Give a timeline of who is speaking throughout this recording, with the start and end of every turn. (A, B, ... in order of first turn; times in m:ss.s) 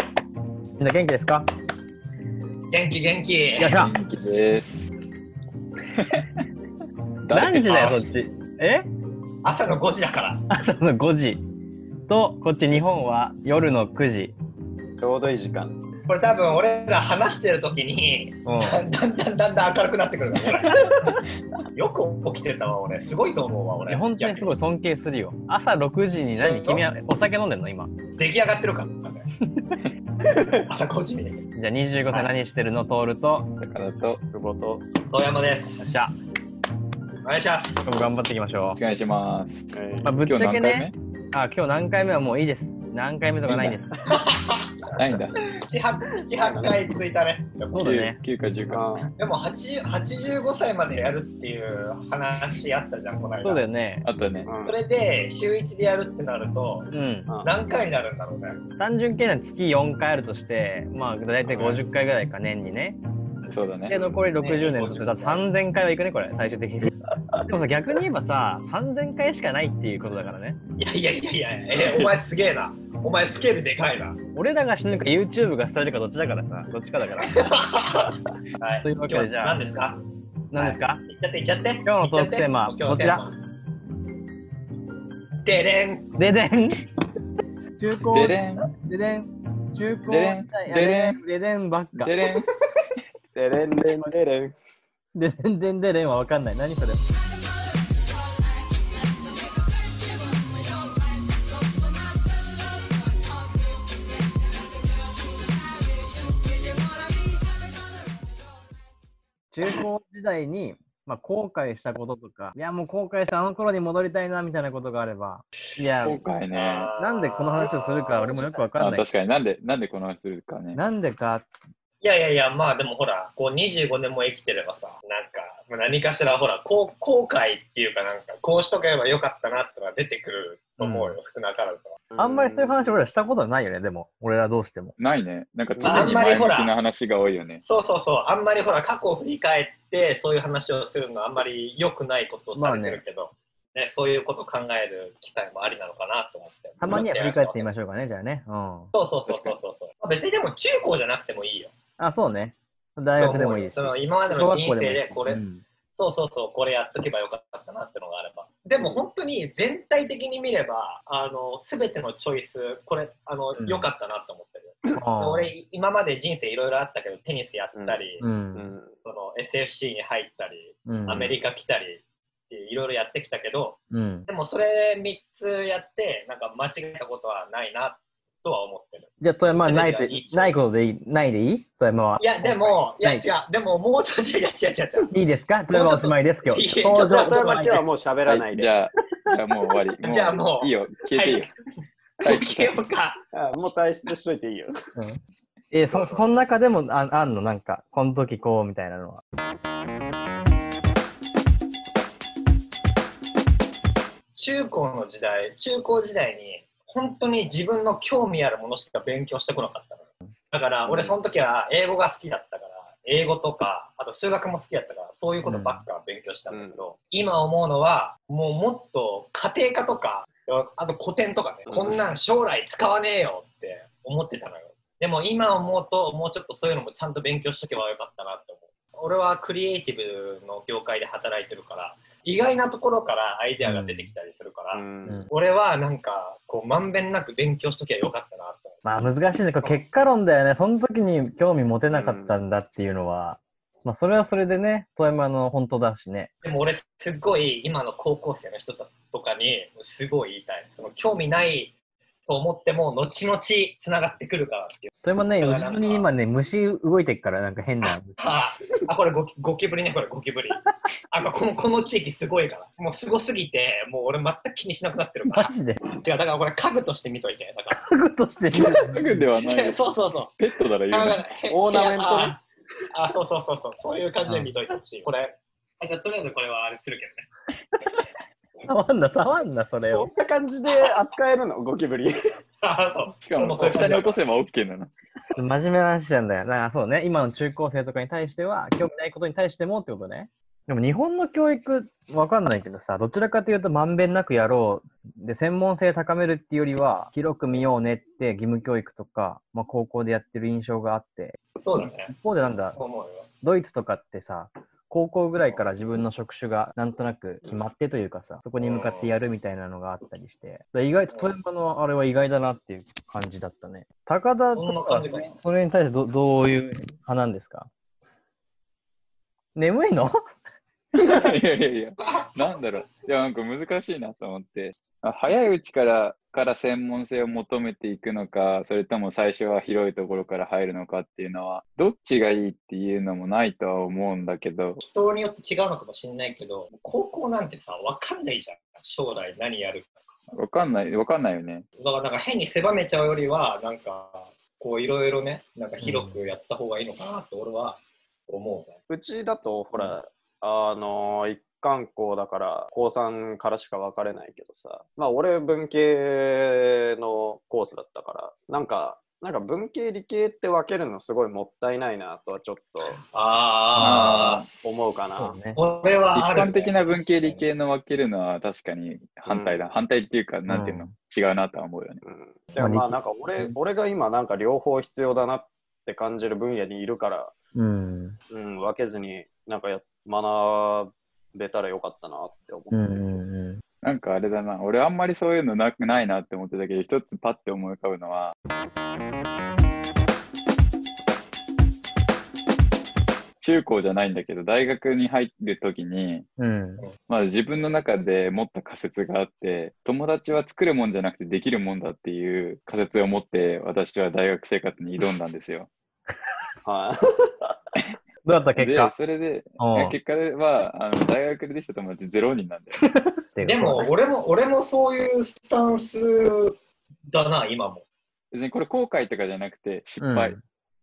0:00.8-0:01.5 A
0:02.7-0:03.8 B
0:03.6-0:03.9 A
0:03.6-0:04.9 C
0:05.9-0:06.4 C
0:07.2-0:08.1 C
0:07.3-0:08.9 A
0:09.4-0:10.4 B
0:10.5-0:11.4 A
0:12.1-0:14.3 A
0:15.0-0:15.8 D
0:16.0-0:20.9 B
0:18.4-0:18.8 A
0:21.7-0:24.5 B
0:23.9-0:27.9 A
0:26.4-0:26.8 B
0:28.2-0:29.3 B
0:30.3-0:30.6 D
0:30.5-0:31.4 B
0:31.5-0:33.5 A
0:33.6-0:34.2 C
0:34.3-0:34.9 D
0:35.1-0:36.0 B
0:35.8-0:36.1 A
0:37.2-0:37.8 B
0:37.8-0:38.8 A
0:38.7-0:40.9 C
0:39.7-0:40.1 D
0:40.0-0:43.9 A
0:43.5-0:43.8 C
0:44.1-0:45.0 B
0:45.0-0:45.4 C
0:45.5-0:47.9 B
0:46.4-0:46.9 D
0:47.7-0:48.2 A
0:47.8-0:48.9 C
0:48.7-0:49.1 D
0:49.2-0:53.6 B
0:53.4-0:54.1 A
0:54.0-0:54.5 C
0:54.4-0:54.8 D
0:54.6-0:56.9 B
0:56.9-0:57.3 A
0:57.4-0:58.6 B
0:58.8-1:03.0 A
1:01.4-1:01.8 D
1:03.5-1:04.2 C
1:03.9-1:10.6 A
1:04.4-1:05.4 B
1:04.5-1:05.0 D
1:10.8-1:14.2 B
1:11.8-1:12.1 C
1:14.3-1:17.4 A
1:17.2-1:20.0 B
1:18.8-1:19.6 A
1:20.5-1:21.0 A
1:20.5-1:23.4 B
1:21.8-1:23.2 A
1:25.4-1:26.1 B
1:26.2-1:26.8 A
1:27.8-1:32.2 A
1:28.1-1:28.7 C
1:30.1-1:31.2 C
1:32.0-1:32.5 C
1:33.3-1:34.6 D
1:35.1-1:37.0 A
1:49.5-1:56.2 A
1:56.0-1:56.9 C
1:56.5-1:58.6 B
1:57.0-1:59.0 A
1:58.8-2:00.8 C
2:00.7-2:01.5 A
2:02.0-2:12.0 B
2:10.8-2:11.2 A
2:12.1-2:13.0 D
2:12.2-2:14.9 A
2:15.0-2:17.6 C
2:15.8-2:16.2 D
2:15.9-2:16.7 B
2:17.6-2:27.7 B
2:22.5-2:23.0 A
2:26.8-2:28.9 A
2:28.9-2:31.7 B
2:29.3-2:29.5 C
2:32.0-2:35.6 A
2:33.2-2:35.4 B
2:36.0-2:48.2 B
2:38.8-2:39.0 D
2:43.6-2:43.9 A
2:44.9-2:45.5 A
2:47.7-2:48.0 D
2:48.2-2:48.7 A
2:48.5-2:48.9 D
2:49.0-3:00.6 B
2:50.8-2:51.4 A
2:53.9-2:54.3 A
2:59.2-3:03.2 A
3:02.2-3:05.1 B
3:05.1-3:07.8 A
3:05.7-3:07.8 B
3:07.0-3:08.7 D
3:08.3-3:11.5 C
3:10.0-3:11.5 B
3:12.2-3:13.2 B
3:12.2-3:12.7 C
3:13.3-3:14.7 D
3:15.7-3:19.2 A
3:15.9-3:16.3 B
3:24.4-3:58.8 B
3:30.8-3:31.2 D
3:35.4-3:35.8 A
3:36.5-3:36.8 D
3:41.7-3:42.0 D
3:53.6-3:54.1 A
3:54.7-3:55.3 D
3:58.8-4:06.3 A
3:59.6-3:59.9 B
4:01.9-4:02.4 D
4:06.4-4:11.7 B
4:12.2-4:16.1 B
4:15.0-4:18.2 A
4:18.2-4:27.9 B
4:25.3-4:25.8 A
4:27.8-4:29.2 A
4:28.5-4:29.8 C
4:29.4-4:30.3 B
4:30.4-4:31.2 C
4:30.9-4:32.4 B
4:31.5-4:32.4 D
4:32.9-4:37.3 B
4:34.2-4:34.5 A
4:38.7-4:40.1 A
4:39.9-4:42.2 D
4:42.6-4:44.2 B
4:43.2-4:44.9 C
4:45.3-5:01.4 A
5:01.6-5:02.1 B
5:02.1-5:02.8 A
5:02.7-5:03.3 B
5:03.4-5:17.7 A
5:08.6-5:09.1 B
5:14.5-5:15.4 B
5:19.5-5:20.2 A
5:20.9-5:34.8 C
5:34.8-5:40.3 B
5:40.3-5:41.6 C
5:41.8-5:48.8 B
5:45.8-5:46.2 A
5:48.9-6:03.0 D
6:02.8-6:05.0 B
6:03.7-6:04.1 A
6:03.8-6:04.4 C
6:04.6-6:05.4 D
6:05.2-6:05.6 A
6:05.5-6:07.4 B
6:06.1-6:12.0 C
6:09.3-6:09.6 D
6:10.5-6:10.9 A
6:12.0-6:17.3 D
6:12.6-6:13.6 A
6:17.5-6:18.2 A
6:18.3-6:23.2 D
6:22.7-6:23.6 A
6:23.8-6:28.3 C
6:33.4-6:36.2 C
6:36.4-6:36.9 A
6:37.1-6:45.7 C
6:46.6-6:47.6 D
6:48.2-6:48.9 A
6:48.6-6:52.8 C
6:49.6-6:49.9 A
6:52.8-6:53.9 A
6:53.4-6:56.6 B
6:57.1-6:57.8 B
6:58.3-7:00.4 C
7:00.0-7:00.4 A